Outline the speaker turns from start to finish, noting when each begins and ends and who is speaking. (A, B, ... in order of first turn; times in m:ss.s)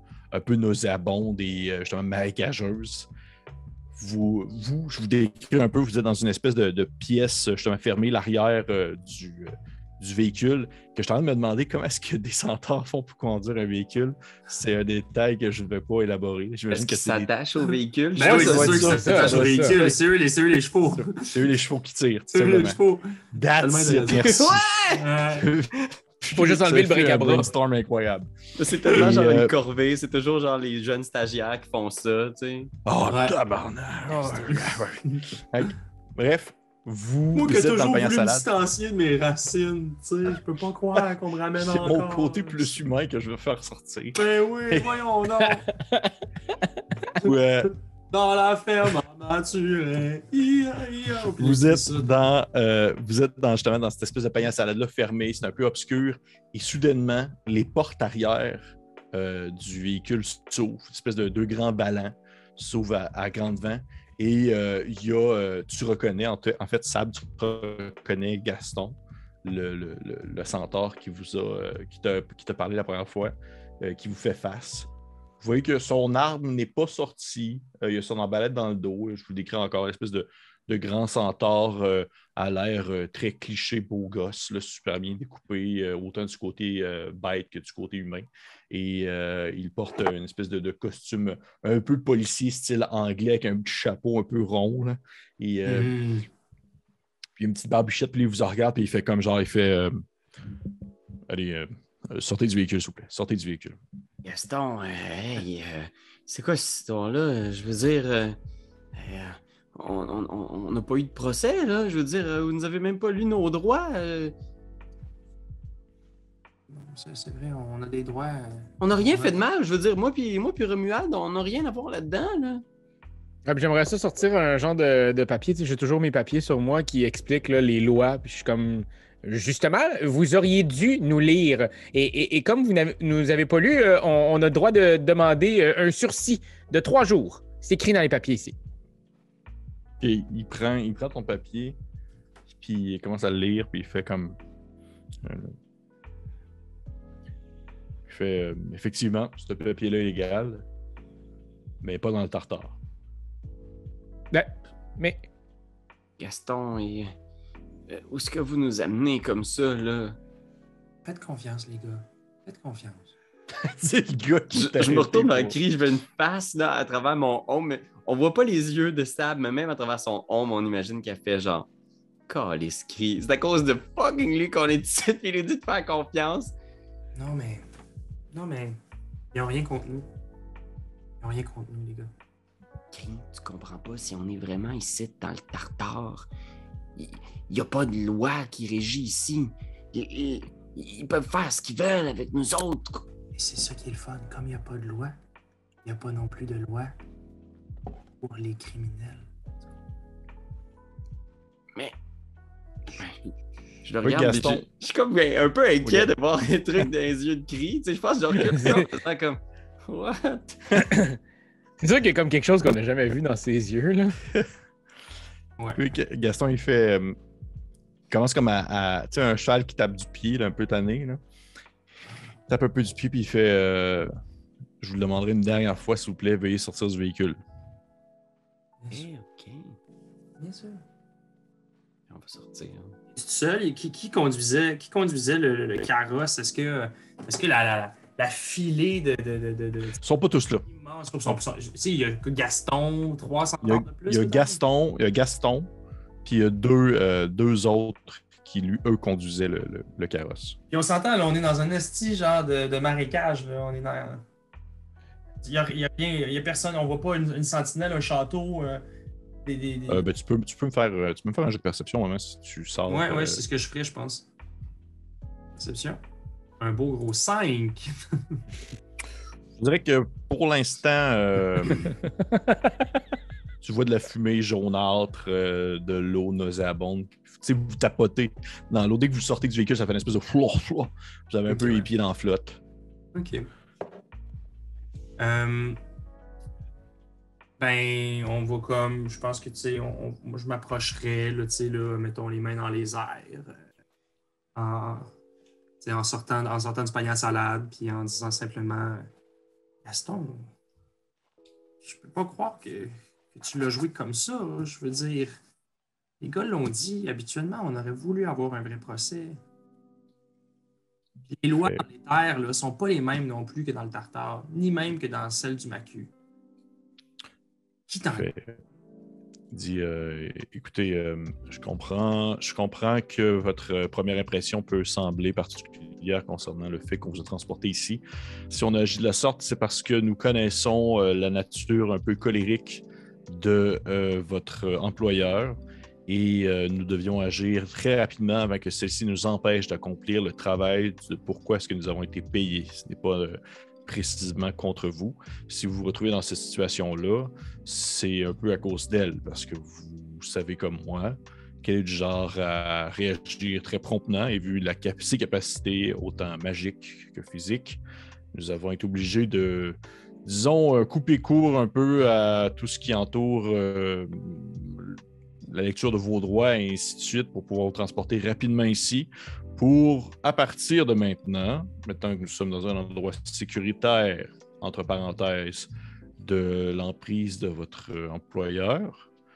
0:00.3-0:03.1 A
0:04.0-0:17.3 A
0:16.7-0:19.2 B
0:18.2-0:21.2 C
0:18.2-0:19.8 D
0:18.2-0:20.0 A
0:20.9-0:22.8 A
0:22.3-0:24.4 C
0:23.3-0:24.8 A
0:24.1-0:25.1 B
0:25.0-0:25.5 C
0:25.3-0:29.5 A
0:26.4-0:27.5 D
0:28.6-0:32.7 B
0:32.9-0:38.5 A
0:33.0-0:33.4 C
0:34.0-0:35.2 C
0:37.3-0:42.7 C
0:41.6-0:44.9 A
0:44.2-0:45.7 C
0:45.7-0:46.1 D
0:47.1-0:47.7 A
0:48.1-0:52.1 C
0:51.4-1:35.9 A
1:35.7-1:36.3 C
1:37.4-1:40.0 A
1:41.3-1:43.8 A
1:44.2-1:48.4 B
1:49.0-1:54.3 B
1:56.7-1:59.4 C
1:58.8-2:02.6 B
2:03.5-2:18.6 D
2:20.0-2:21.8 A
2:22.6-2:24.4 A
2:25.2-2:25.6 A
2:28.1-2:30.6 A
2:31.8-2:32.8 A
2:34.3-2:35.2 D
2:36.2-2:37.1 B
2:37.9-2:40.2 B
2:41.0-2:43.1 C
2:43.5-2:45.6 A
2:44.5-2:51.7 B
2:52.3-2:56.5 B
2:57.2-2:57.7 C
2:58.3-2:58.8 C
2:59.3-3:00.0 C
3:01.2-3:02.1 C
3:02.9-3:06.3 B
3:07.0-3:13.0 B
3:13.3-3:15.2 C
3:15.8-3:17.0 C
3:18.2-3:19.3 C
3:22.9-3:23.3 B
3:23.8-3:30.8 B
3:24.0-3:24.6 A
3:25.8-3:26.1 A
3:30.9-3:31.2 D
3:31.8-3:34.2 D
3:35.6-3:35.8 C
3:35.8-3:37.2 A
3:38.1-3:41.2 A
3:42.5-3:44.1 A
3:44.8-3:47.4 A
3:48.8-3:49.1 C
3:48.9-3:49.8 B
3:50.4-3:50.8 C
3:52.1-3:53.0 B
3:53.1-4:00.0 C
4:00.0-4:00.6 A
4:00.6-4:04.6 C
4:03.6-4:05.7 A
4:06.2-4:10.6 A
4:10.7-4:14.2 C
4:15.4-4:18.8 C
4:19.4-4:20.0 C
4:19.9-4:23.4 A
4:22.9-4:24.3 C
4:25.6-4:26.0 C
4:26.6-4:28.4 C
4:29.6-4:32.0 A
4:33.6-4:42.6 A
4:41.5-4:41.9 C
4:43.1-4:43.5 C
4:45.2-4:45.8 C
4:47.6-4:53.6 C
4:54.6-4:55.1 C
4:55.8-4:59.1 C
4:59.8-5:00.5 C
5:01.8-5:05.4 C
5:06.2-5:09.4 C
5:11.3-5:16.1 C
5:17.9-5:18.3 C
5:18.1-5:18.6 A
5:19.5-5:57.8 A
5:58.3-6:19.1 A